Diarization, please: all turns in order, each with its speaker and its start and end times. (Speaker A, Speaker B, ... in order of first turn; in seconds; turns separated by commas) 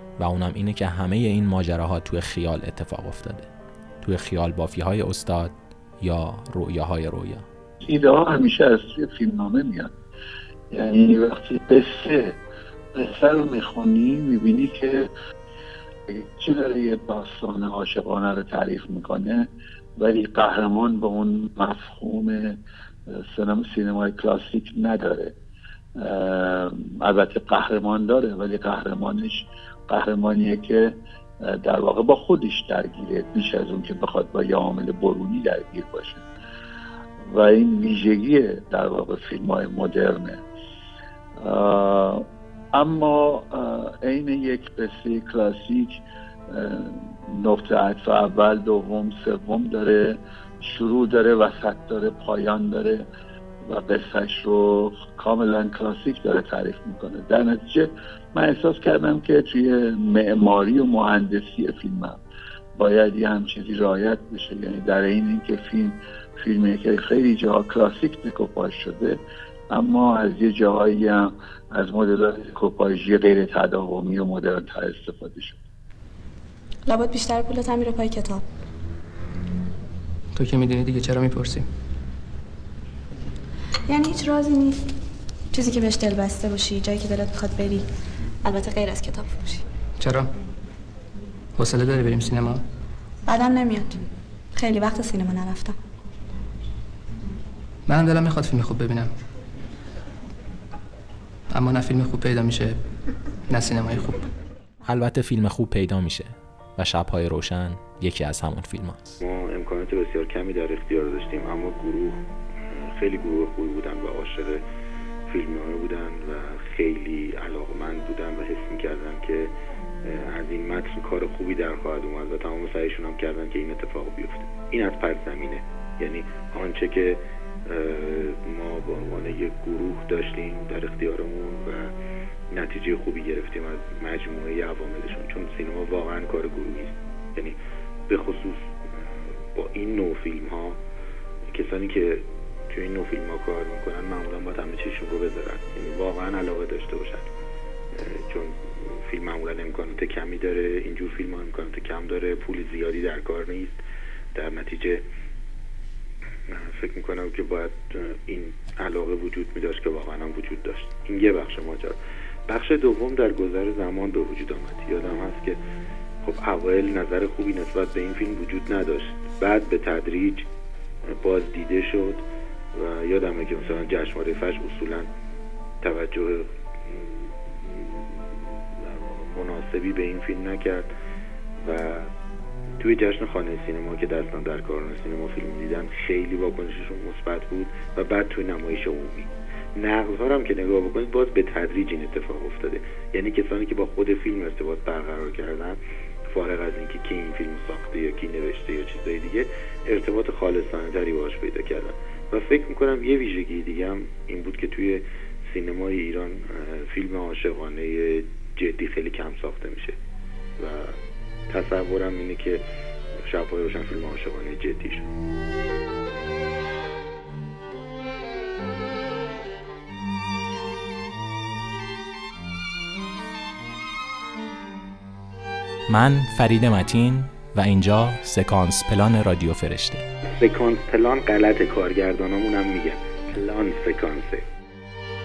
Speaker A: 0.2-3.5, Speaker A: 4.0-7.5, Speaker B: 7.8-9.9, Speaker B: 10.7-12.3, Speaker B: 12.9-15.1, Speaker B: 16.1-22.6, Speaker B: 23.1-25.3, Speaker B: 26.0-30.9, Speaker B: 31.4-36.2, Speaker B: 37.2-40.4, Speaker B: 41.4-53.0, Speaker B: 53.6-62.2, Speaker B: 62.8-69.2, Speaker B: 69.7-75.6, Speaker C: 76.9-78.4, Speaker D: 80.3-81.7, Speaker C: 83.9-84.9, Speaker C: 85.5-87.9, Speaker C: 88.4-89.6, Speaker D: 90.0-90.3, Speaker D: 91.6-92.6, Speaker C: 93.3-94.0, Speaker C: 94.5-95.8, Speaker D: 97.9-99.1, Speaker D: 101.5-102.8, Speaker D: 103.5-104.2, Speaker A: 104.9-109.2, Speaker E: 109.2-112.2, Speaker E: 112.8-114.6, Speaker E: 115.3-119.5, Speaker E: 120.1-131.9, Speaker E: 132.5-137.6, Speaker E: 138.1-138.6, Speaker E: 139.6-140.8, Speaker E: 141.5-147.3, Speaker E: 147.9-153.8, Speaker E: 154.3-155.1, Speaker E: 156.5-165.6, Speaker E: 166.2-170.5, Speaker E: 171.1-175.1, Speaker E: 175.8-178.1, Speaker E: 178.8-180.9, Speaker E: 181.6-182.1, Speaker E: 182.8-210.0, Speaker E: 210.6-211.0, Speaker E: 211.5-212.6, Speaker E: 213.2-215.1, Speaker A: 225.9-230.0, Speaker E: 230.3-234.4